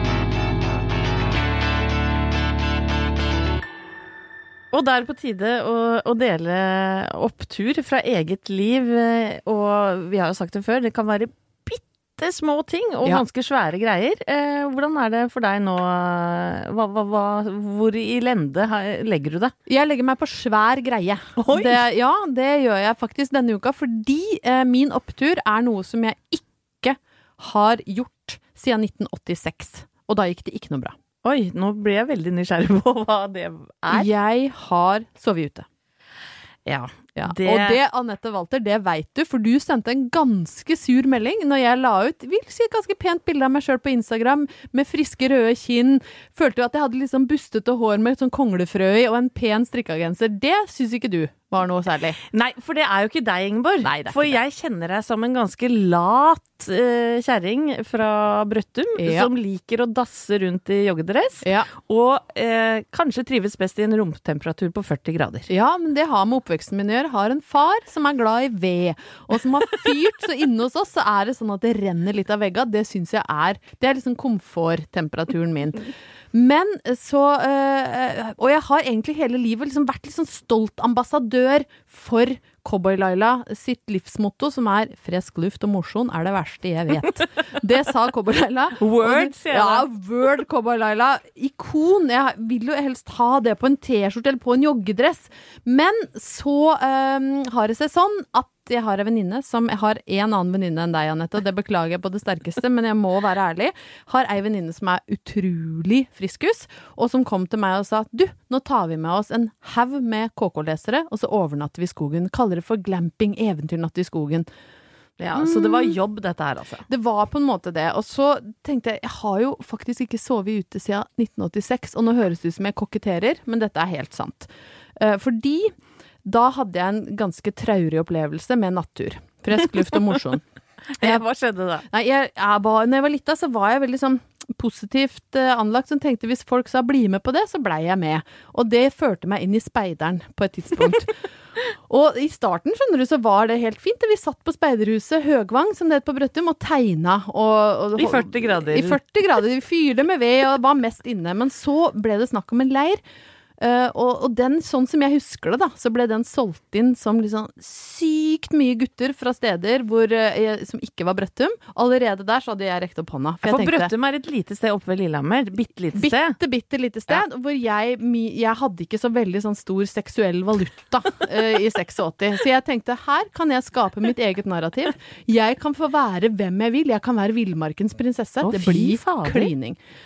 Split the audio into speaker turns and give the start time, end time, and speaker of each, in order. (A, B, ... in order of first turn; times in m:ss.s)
0:04.7-0:19.5 A
0:19.7-0:30.9 B
0:21.4-0:21.8 A
0:31.2-0:34.1 A
0:33.9-0:35.6 B
0:36.6-0:37.8 A
0:37.2-0:52.2 B
0:52.2-1:05.5 A
0:53.8-0:54.4 B
0:59.0-0:59.3 B
1:01.4-1:01.7 B
1:05.5-1:54.5 B
1:28.8-1:29.9 A
1:55.2-1:56.8 A
1:55.4-1:56.0 B
1:56.9-2:10.4 B
2:10.9-2:11.8 A
2:11.9-2:21.1 B
2:21.9-2:33.0 B
2:28.0-2:29.0 A
2:33.6-2:43.9 B
2:43.4-2:46.4 A
2:45.9-2:59.8 B
2:58.4-2:59.5 A